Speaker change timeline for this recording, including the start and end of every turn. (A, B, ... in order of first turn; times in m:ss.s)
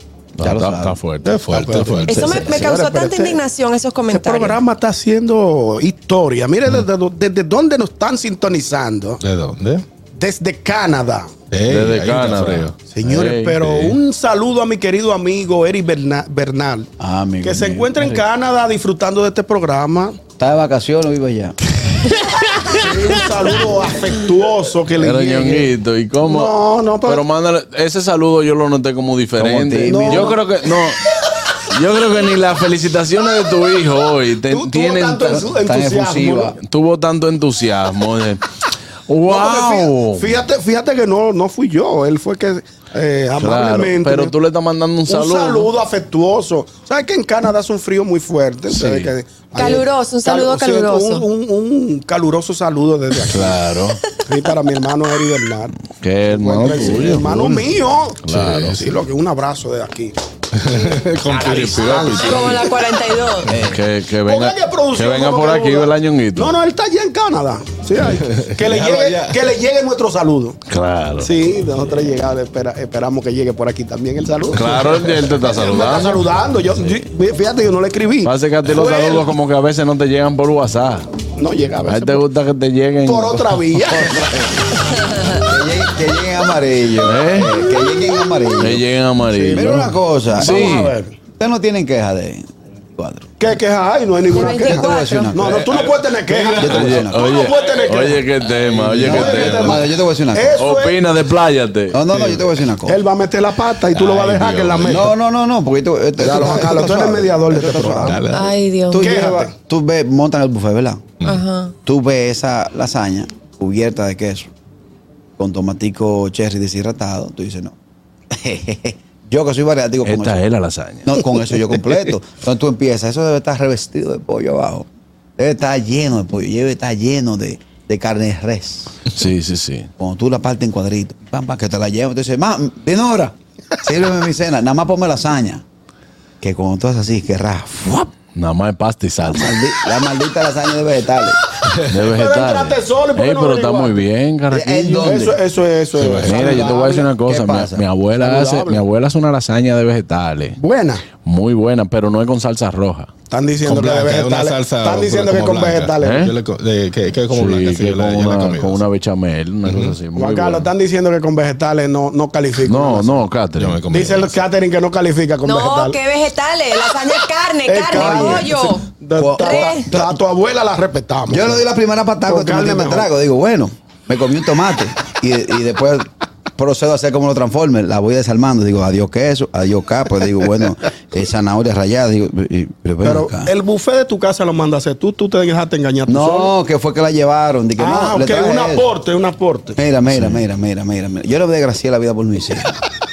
0:00.4-0:02.1 A
0:00.4-0:01.0 B
0:01.2-0:02.5 C
0:01.5-0:03.4 D
0:02.1-0:04.6 E
0:04.1-0:09.2 D
0:09.2-0:09.8 C
0:10.2-0:11.3 D
0:11.5-0:12.8 C
0:11.7-0:13.9 A
0:12.9-0:16.9 D
0:13.7-0:13.9 C
0:17.0-0:18.2 B
0:17.4-0:20.2 D
0:20.4-0:21.6 B
0:22.7-0:25.7 D
0:25.0-0:31.0 A
0:26.2-0:27.2 D
0:29.4-0:30.4 B
0:29.8-0:30.4 D
0:31.7-0:35.4 A
0:34.5-0:36.6 D
0:35.3-0:36.6 B
0:36.6-0:38.4 A
0:39.1-0:40.4 A
0:39.3-0:44.3 D
0:43.4-0:45.7 A
0:45.1-0:53.6 D
0:48.7-0:49.1 A
0:49.6-0:51.3 E
0:53.3-0:54.0 A
0:54.2-0:55.8 D
0:56.0-0:57.7 A
0:56.3-1:00.2 D
0:58.3-0:59.0 A
1:00.5-1:02.7 C
1:00.7-1:02.6 D
1:02.1-1:03.5 E
1:03.5-1:03.8 B
1:03.5-1:06.6 A
1:04.3-1:10.6 D
1:08.3-1:09.4 C
1:10.7-1:11.3 A
1:11.2-1:19.3 D
1:14.5-1:16.2 A
1:18.2-1:21.1 A
1:21.4-1:22.2 D
1:21.8-1:23.9 A
1:23.0-1:24.1 D
1:23.9-1:28.8 B
1:27.0-1:27.6 A
1:28.6-1:31.0 A
1:29.3-1:31.2 D
1:29.5-1:30.8 B
1:31.4-1:33.3 B
1:33.4-1:38.2 D
1:34.3-1:35.4 E
1:34.3-1:35.7 B
1:35.5-1:37.9 C
1:36.6-1:37.3 B
1:36.7-1:39.8 A
1:38.4-1:39.8 C
1:39.0-1:40.6 B
1:39.0-1:41.0 D
1:40.6-1:42.0 A
1:41.9-1:43.0 B
1:42.1-1:42.4 C
1:42.9-1:45.1 D
1:43.9-1:45.1 C
1:44.8-1:48.2 B
1:46.2-1:48.2 D
1:48.0-1:48.5 C
1:48.3-1:49.1 E
1:48.9-1:51.1 B
1:49.0-1:49.5 D
1:51.2-1:51.7 E
1:51.9-1:54.5 B
1:55.4-1:57.8 B
1:58.3-2:00.4 B
2:00.0-2:01.2 A
2:01.0-2:04.9 B
2:05.4-2:09.0 B
2:09.2-2:09.9 A
2:10.0-2:15.6 B
2:16.4-2:18.1 B
2:18.4-2:19.6 A
2:19.2-2:21.4 B
2:21.9-2:25.4 A
2:22.0-2:24.0 D
2:24.5-2:25.4 B
2:25.0-2:27.1 D
2:26.0-2:26.5 C
2:26.2-2:30.6 A
2:26.3-2:27.8 B
2:28.2-2:28.8 D
2:30.6-2:31.0 D
2:31.2-2:33.1 A
2:33.3-2:36.3 D
2:33.6-2:38.8 C
2:36.0-2:36.3 A
2:37.3-2:40.7 A
2:39.7-2:40.0 C
2:40.2-2:43.2 D
2:42.6-2:43.8 A
2:43.6-2:44.4 C
2:43.9-2:46.0 D
2:45.4-2:49.9 E
2:47.7-2:51.6 D
2:47.9-2:48.5 B
2:49.2-2:50.2 B
2:51.3-3:03.5 B
2:52.3-2:53.1 D
3:03.0-3:06.5 D
3:06.1-3:08.9 B
3:07.8-3:09.8 D
3:09.8-3:12.8 B
3:10.1-3:10.4 A